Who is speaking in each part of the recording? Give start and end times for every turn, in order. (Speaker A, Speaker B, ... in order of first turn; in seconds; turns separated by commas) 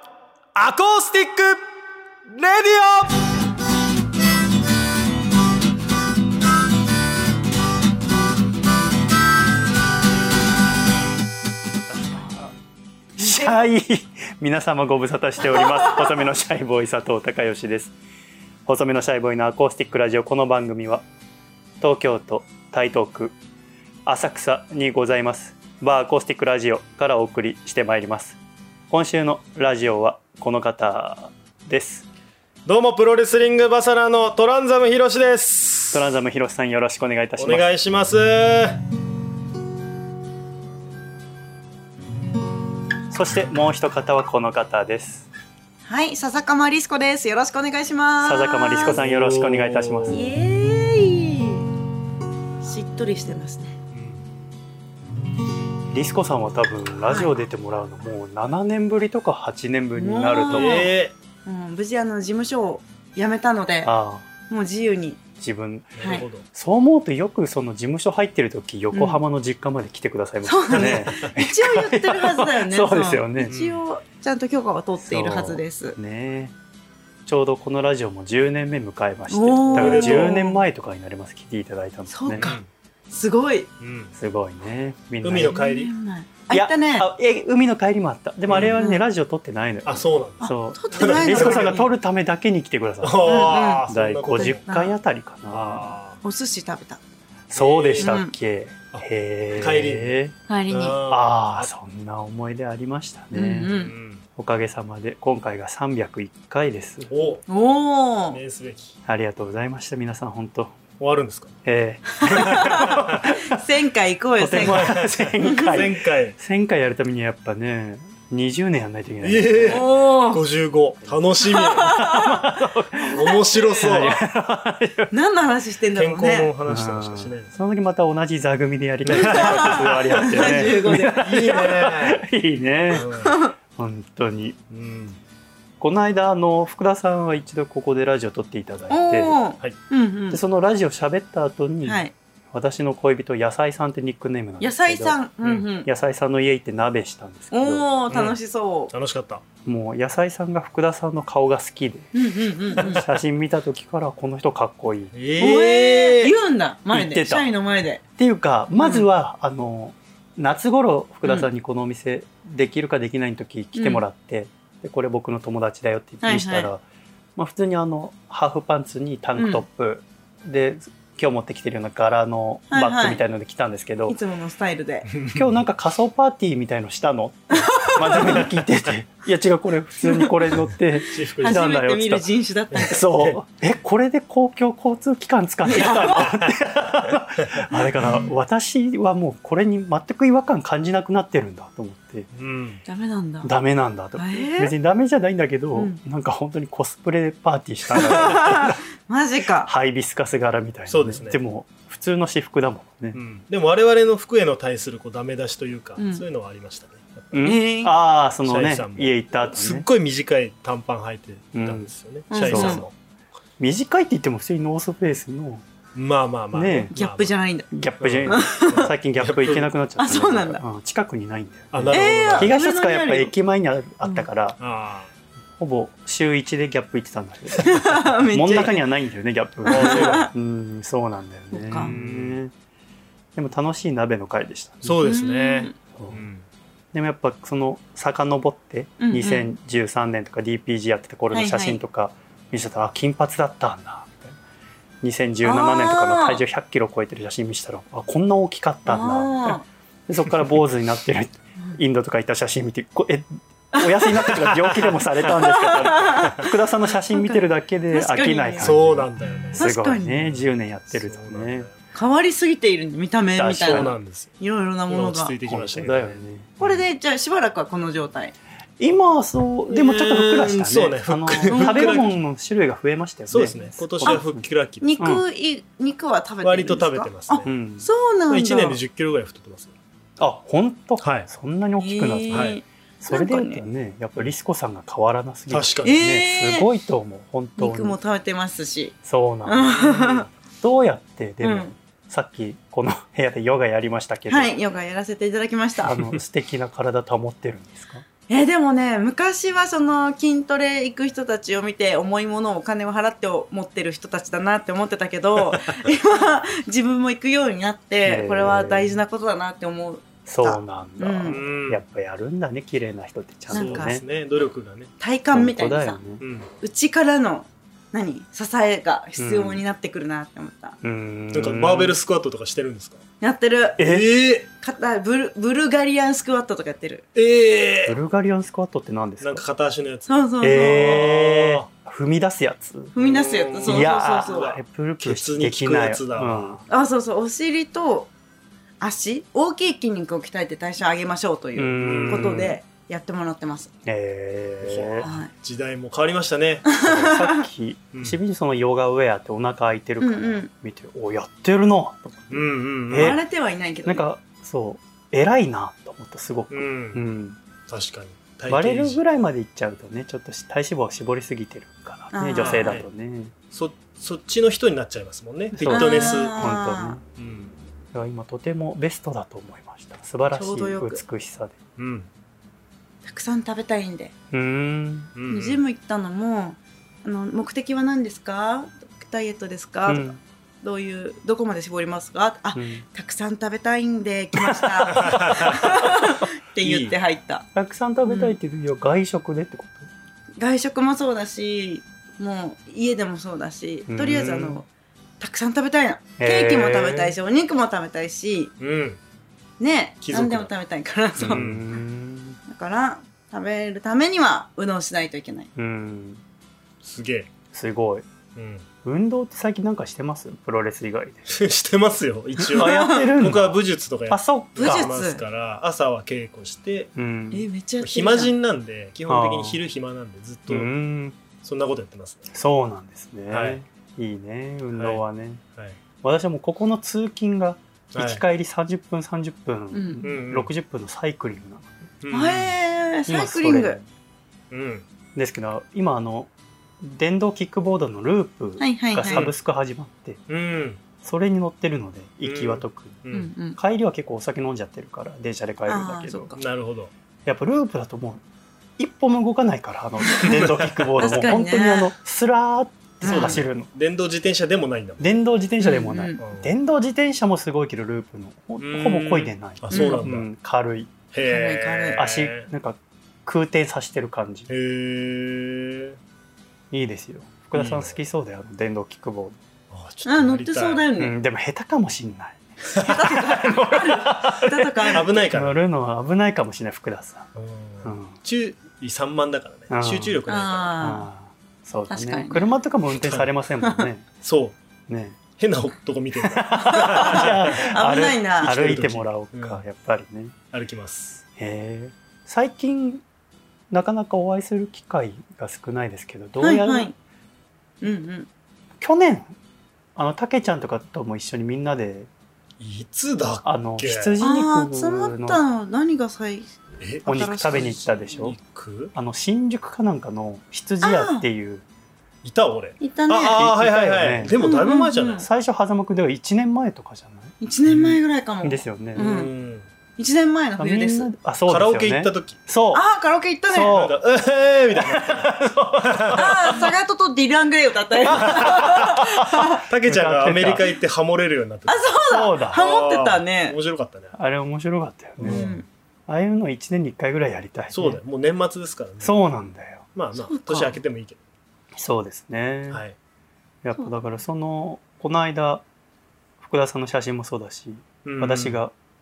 Speaker A: 0.6-1.6, Speaker A: 2.3-3.2, Speaker B: 11.8-12.6, Speaker B: 13.2-17.9, Speaker C: 13.2-13.7, Speaker B: 18.7-21.1, Speaker B: 21.8-23.4, Speaker B: 24.1-28.4, Speaker B: 28.9-32.1, Speaker A: 32.7-36.1, Speaker B: 35.9-37.7, Speaker A: 37.4-38.8, Speaker B: 43.1-45.3, Speaker C: 45.9-49.0, Speaker B: 48.2-50.3, Speaker A: 48.8-50.3, Speaker C: 50.1-51.6, Speaker C: 52.6-53.8, Speaker A: 53.9-54.2, Speaker B: 55.9-60.9, Speaker C: 60.0-60.9, Speaker A: 60.5-61.1, Speaker C: 61.5-63.9, Speaker B: 63.8-64.3, Speaker C: 64.5-65.2, Speaker B: 65.4-73.5, Speaker A: 66.0-66.5, Speaker C: 68.9-69.2, Speaker C: 70.4-76.0, Speaker A: 70.7-71.3, Speaker A: 73.5-73.8, Speaker B: 75.0-76.5, Speaker B: 77.3-82.5, Speaker C: 79.3-80.6, Speaker A: 79.7-80.3, Speaker C: 82.1-82.6, Speaker A: 82.4-82.7, Speaker C: 83.1-83.7, Speaker A: 83.8-84.1, Speaker B: 84.2-85.6, Speaker A: 85.2-85.9, Speaker C: 85.5-87.1, Speaker B: 86.5-96.0, Speaker A: 88.5-88.8, Speaker C: 88.7-89.0, Speaker A: 89.9-91.8, Speaker C: 90.4-91.9, Speaker A: 93.0-94.6, Speaker C: 93.2-94.9, Speaker A: 95.5-96.2, Speaker C: 96.2-97.0, Speaker B: 97.5-100.4, Speaker A: 97.5-98.2, Speaker C: 98.0-98.3, Speaker A: 98.9-100.2, Speaker C: 100.5-101.0, Speaker A: 100.7-101.7, Speaker B: 101.0-103.7, Speaker C: 103.3-103.9, Speaker A: 103.6-104.2, Speaker B: 104.4-107.1, Speaker A: 107.1-107.4, Speaker C: 107.5-108.4, Speaker A: 108.3-109.0, Speaker B: 109.1-110.8, Speaker A: 111.0-111.5, Speaker B: 111.7-113.6, Speaker C: 112.2-114.9, Speaker A: 112.3-113.3, Speaker B: 114.4-119.9, Speaker A: 114.5-116.4, Speaker C: 115.4-115.8, Speaker A: 119.2-121.9, Speaker C: 119.7-120.4, Speaker B: 121.3-125.1, Speaker C: 121.4-122.5, Speaker A: 123.1-124.2, Speaker C: 123.2-124.2, Speaker C: 125.1-126.5, Speaker A: 126.0-127.5, Speaker B: 126.7-133.1, Speaker A: 129.1-132.2, Speaker C: 129.1-131.5, Speaker A: 132.9-133.3, Speaker C: 133.1-133.6, Speaker B: 133.8-134.6, Speaker A: 134.7-135.2, Speaker B: 135.8-139.4, Speaker C: 138.9-140.4, Speaker B: 140.3-145.2, Speaker C: 141.8-142.1, Speaker C: 144.6-145.9, Speaker B: 145.8-147.9, Speaker C: 147.5-148.9, Speaker A: 148.1-148.4, Speaker A: 148.9-149.4, Speaker B: 149.7-152.1, Speaker C: 152.1-153.1, Speaker B: 152.8-155.1, Speaker A: 152.8-153.1, Speaker A: 155.1-156.3, Speaker C: 155.4-158.0, Speaker B: 156.9-157.5, Speaker B: 158.2-166.8, Speaker C: 158.8-159.1, Speaker C: 163.8-164.0, Speaker C: 166.2-166.7, Speaker B: 167.4-174.2, Speaker C: 169.4-169.6, Speaker C: 172.7-173.2, Speaker C: 174.1-175.1, Speaker A: 175.1-175.5, Speaker B: 175.3-182.3, Speaker C: 177.5-178.5, Speaker C: 180.0-180.3, Speaker A: 181.1-181.6, Speaker C: 181.4-183.2, Speaker A: 182.7-183.4, Speaker B: 182.9-192.3, Speaker C: 185.7-186.3, Speaker A: 186.0-186.5, Speaker A: 192.3-192.8, Speaker C: 192.9-193.5, Speaker B: 193.4-198.8, Speaker C: 194.2-194.7, Speaker C: 195.7-196.0, Speaker C: 197.9-199.7, Speaker B: 199.6-203.2, Speaker A: 200.9-201.4, Speaker A: 203.1-207.4, Speaker C: 206.0-206.2, Speaker B: 207.3-209.9, Speaker C: 207.4-207.9, Speaker A: 208.4-212.9, Speaker B: 211.6-212.9, Speaker C: 212.3-212.9, Speaker B: 213.6-215.7, Speaker A: 215.9-217.3, Speaker B: 216.5-216.9, Speaker C: 216.9-217.7, Speaker B: 217.7-224.6, Speaker A: 218.0-219.7, Speaker C: 218.3-218.9, Speaker C: 220.0-220.6, Speaker A: 221.7-222.5, Speaker C: 221.9-223.3, Speaker C: 224.0-224.3, Speaker A: 224.6-225.1, Speaker B: 225.6-232.5, Speaker C: 227.5-228.8, Speaker C: 229.7-230.3, Speaker A: 229.7-230.3, Speaker C: 231.5-231.9, Speaker A: 231.7-232.4, Speaker B: 233.3-235.0, Speaker A: 234.8-236.4, Speaker C: 235.0-235.7, Speaker B: 235.9-236.2, Speaker B: 236.9-244.4, Speaker C: 239.0-239.5, Speaker C: 241.3-241.8, Speaker B: 245.0-261.7, Speaker C: 245.4-246.4, Speaker C: 248.9-249.7, Speaker C: 253.7-254.2, Speaker A: 254.3-255.1, Speaker C: 255.4-258.8, Speaker A: 258.6-259.7, Speaker C: 259.6-260.4, Speaker A: 260.2-261.7, Speaker C: 261.9-265.3, Speaker B: 263.4-263.9, Speaker A: 263.6-264.3, Speaker A: 264.9-266.7, Speaker B: 265.5-266.6, Speaker C: 266.6-268.3, Speaker B: 268.8-274.4, Speaker A: 269.7-272.1, Speaker C: 271.5-272.2, Speaker A: 273.3-274.9, Speaker C: 274.8-278.8, Speaker A: 276.4-277.5, Speaker B: 277.5-277.9, Speaker A: 278.3-279.7, Speaker B: 280.2-288.0, Speaker A: 281.0-281.3, Speaker C: 281.8-283.6, Speaker A: 282.3-282.6, Speaker A: 285.5-286.0, Speaker C: 285.9-286.7, Speaker C: 287.6-290.3, Speaker B: 289.0-294.5, Speaker C: 291.4-291.7, Speaker C: 294.3-296.1, Speaker B: 295.8-298.1, Speaker C: 298.3-311.4, Speaker B: 308.0-309.0, Speaker B: 310.3-314.0, Speaker A: 311.3-311.8, Speaker C: 313.5-314.0, Speaker A: 313.5-314.9, Speaker C: 315.0-316.0, Speaker B: 315.3-316.2, Speaker A: 316.2-316.5, Speaker C: 316.6-320.8, Speaker B: 319.2-319.6, Speaker B: 320.8-322.0, Speaker A: 321.3-323.0, Speaker C: 323.2-323.8, Speaker B: 323.8-324.1, Speaker A: 323.8-324.5, Speaker C: 324.6-327.1, Speaker A: 327.1-328.0, Speaker B: 327.9-329.5, Speaker A: 329.2-331.7, Speaker C: 330.1-331.1, Speaker B: 330.4-332.9, Speaker C: 332.9-334.5, Speaker A: 333.0-336.6, Speaker B: 333.6-336.6, Speaker C: 336.7-338.1, Speaker C: 338.8-343.7, Speaker B: 341.6-342.6, Speaker A: 341.8-342.5, Speaker B: 343.9-345.1, Speaker A: 344.6-346.7, Speaker C: 345.0-345.3, Speaker C: 346.7-347.4, Speaker B: 346.8-353.2, Speaker C: 350.0-350.5, Speaker A: 352.3-353.2, Speaker C: 352.9-354.0, Speaker B: 353.8-357.4, Speaker A: 356.5-357.0, Speaker A: 357.7-359.0, Speaker B: 358.5-363.3, Speaker C: 362.1-362.8, Speaker A: 362.4-362.9, Speaker A: 363.5-366.5, Speaker B: 365.5-367.0, Speaker C: 365.7-367.0, Speaker A: 367.2-367.6, Speaker B: 367.9-371.6, Speaker C: 370.3-371.0, Speaker A: 371.8-372.1, Speaker C: 373.1-374.1, Speaker B: 374.3-375.1, Speaker A: 375.1-375.6, Speaker C: 375.3-387.4, Speaker B: 379.9-380.2, Speaker B: 382.6-382.9, Speaker B: 384.4-385.9, Speaker A: 385.0-385.6, Speaker A: 386.6-386.9, Speaker B: 387.6-389.9, Speaker C: 388.1-388.4, Speaker C: 390.4-394.7, Speaker B: 393.9-394.6, Speaker C: 395.2-398.5, Speaker B: 396.2-397.2, Speaker A: 398.6-399.0, Speaker C: 399.6-401.4, Speaker A: 400.0-400.5, Speaker A: 401.2-401.6, Speaker B: 401.2-402.4, Speaker C: 402.5-405.5, Speaker B: 405.6-406.2, Speaker A: 406.8-407.3, Speaker B: 407.5-408.1, Speaker A: 408.4-408.7, Speaker B: 408.9-411.4, Speaker A: 411.3-416.9, Speaker B: 412.4-413.6, Speaker C: 412.6-413.1, Speaker B: 414.1-414.9, Speaker C: 414.6-415.2, Speaker B: 417.0-417.5, Speaker C: 417.3-418.3, Speaker A: 417.8-420.7, Speaker B: 419.1-419.6, Speaker B: 420.5-421.2, Speaker A: 421.4-422.3, Speaker B: 422.3-425.4, Speaker A: 423.3-423.6, Speaker A: 424.7-425.0, Speaker B: 426.0-431.9, Speaker A: 427.9-428.2, Speaker C: 429.7-430.0, Speaker A: 430.0-430.5, Speaker A: 432.0-432.6, Speaker C: 432.1-433.8, Speaker B: 433.1-433.8, Speaker A: 434.5-434.9, Speaker B: 435.1-436.3, Speaker B: 436.8-440.2, Speaker C: 438.6-439.3, Speaker A: 439.1-439.4, Speaker A: 440.3-440.8, Speaker B: 441.0-443.0, Speaker A: 442.2-443.3, Speaker C: 443.1-443.6, Speaker B: 443.6-446.4, Speaker C: 445.7-446.4, Speaker A: 446.4-446.9, Speaker B: 447.3-448.2, Speaker B: 448.8-453.7, Speaker C: 450.1-450.4, Speaker A: 450.3-451.2, Speaker C: 451.0-451.9, Speaker C: 453.0-453.4, Speaker A: 453.1-455.1, Speaker B: 455.0-461.0, Speaker C: 455.6-456.2, Speaker A: 456.2-456.5, Speaker A: 458.6-460.3, Speaker C: 459.7-460.1, Speaker A: 461.1-462.5, Speaker C: 461.2-462.0, Speaker B: 462.0-464.5, Speaker A: 464.5-466.0, Speaker B: 466.7-469.4, Speaker A: 467.6-468.0, Speaker A: 469.7-470.9, Speaker C: 470.1-471.1, Speaker B: 471.0-477.3, Speaker C: 472.8-475.1, Speaker A: 474.9-475.6, Speaker A: 477.4-480.9, Speaker B: 477.9-478.2, Speaker B: 479.7-480.2, Speaker C: 480.3-481.1, Speaker B: 480.8-484.1, Speaker C: 481.9-482.5, Speaker A: 482.9-483.3, Speaker A: 484.2-484.6, Speaker B: 484.9-485.2, Speaker A: 485.4-487.7, Speaker B: 486.2-490.4, Speaker C: 486.5-488.5, Speaker A: 488.4-489.6, Speaker A: 490.5-491.2, Speaker B: 491.4-493.0, Speaker B: 493.7-496.9, Speaker C: 496.4-496.9, Speaker C: 497.8-498.3, Speaker B: 498.8-499.3, Speaker B: 500.0-502.1, Speaker A: 502.6-504.2, Speaker B: 503.4-505.4, Speaker C: 504.2-506.5, Speaker A: 506.8-508.9, Speaker C: 507.1-507.9, Speaker B: 507.1-508.4, Speaker B: 508.9-511.6, Speaker C: 510.8-511.2, Speaker A: 512.2-515.3, Speaker C: 512.8-513.4, Speaker B: 513.3-514.4, Speaker C: 514.4-515.3, Speaker B: 515.0-517.3, Speaker C: 517.4-519.3, Speaker A: 517.7-518.0, Speaker B: 518.4-519.2, Speaker A: 519.0-519.7, Speaker C: 520.0-521.1, Speaker B: 520.6-522.8, Speaker A: 521.5-522.4, Speaker C: 522.7-523.8, Speaker B: 523.5-524.0, Speaker A: 523.7-526.5, Speaker B: 524.7-526.3, Speaker C: 526.1-529.6, Speaker A: 528.1-529.1, Speaker B: 528.1-528.7, Speaker B: 529.5-530.6, Speaker A: 529.6-534.2, Speaker C: 531.7-533.6, Speaker B: 532.1-532.6, Speaker B: 534.1-535.5, Speaker A: 535.2-535.6, Speaker C: 535.2-535.7, Speaker B: 536.1-538.0, Speaker A: 537.7-539.1, Speaker B: 539.0-539.9, Speaker A: 540.0-541.2, Speaker C: 540.2-540.8, Speaker B: 541.8-542.8, Speaker B: 543.6-545.6, Speaker B: 546.4-548.7, Speaker A: 548.0-548.6